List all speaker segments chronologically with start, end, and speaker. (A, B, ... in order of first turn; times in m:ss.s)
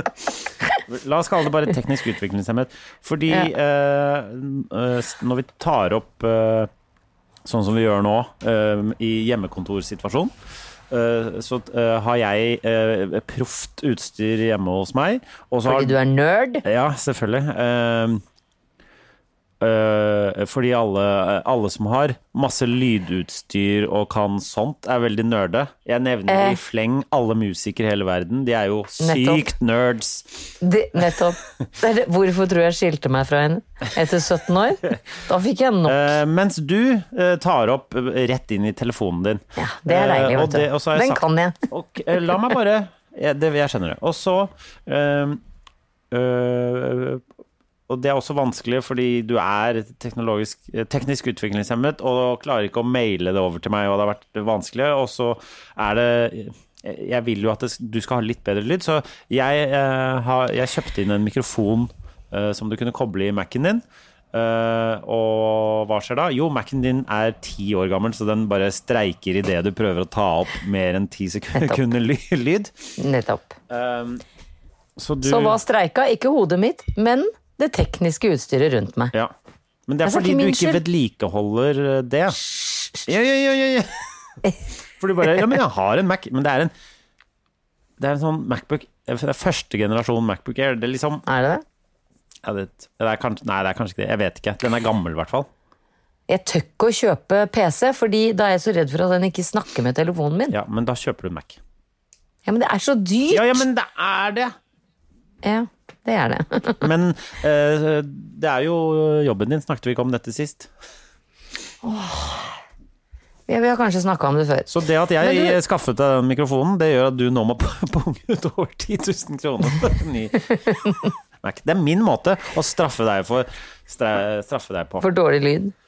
0:00.8-0:06.7 A
0:07.4-0:10.3 A
0:10.9-0:16.0 A
0:15.7-0:16.6 B
0:16.6-0:18.2 A
0:19.6-0:30.5 A
0:26.3-0:26.6 B
0:29.0-0:29.5 B
0:30.6-0:36.0 B
0:35.9-0:45.4 A
0:39.6-0:41.6 B
0:46.1-0:47.2 A
0:47.9-1:12.7 A
1:13.0-1:13.6 B
1:13.7-1:14.2 A
1:15.0-1:15.6 A
1:15.2-1:19.1 B
1:19.9-1:22.5 A
1:20.0-1:20.8 B
1:22.6-1:23.0 B
1:23.0-1:23.9 A
1:25.0-1:26.7 A
1:28.0-1:31.2 A
1:31.3-1:31.6 B
1:32.4-1:35.5 A
1:36.3-1:40.5 B
1:40.5-1:41.6 A
1:42.5-1:43.6 B
1:43.3-1:44.6 A
1:45.4-1:46.9 B
1:46.8-1:50.7 A
1:51.8-1:52.5 B
1:53.5-1:54.7 B
1:54.7-2:00.9 A
1:55.2-1:55.6 B
2:01.4-2:05.1 A
2:05.0-2:05.7 B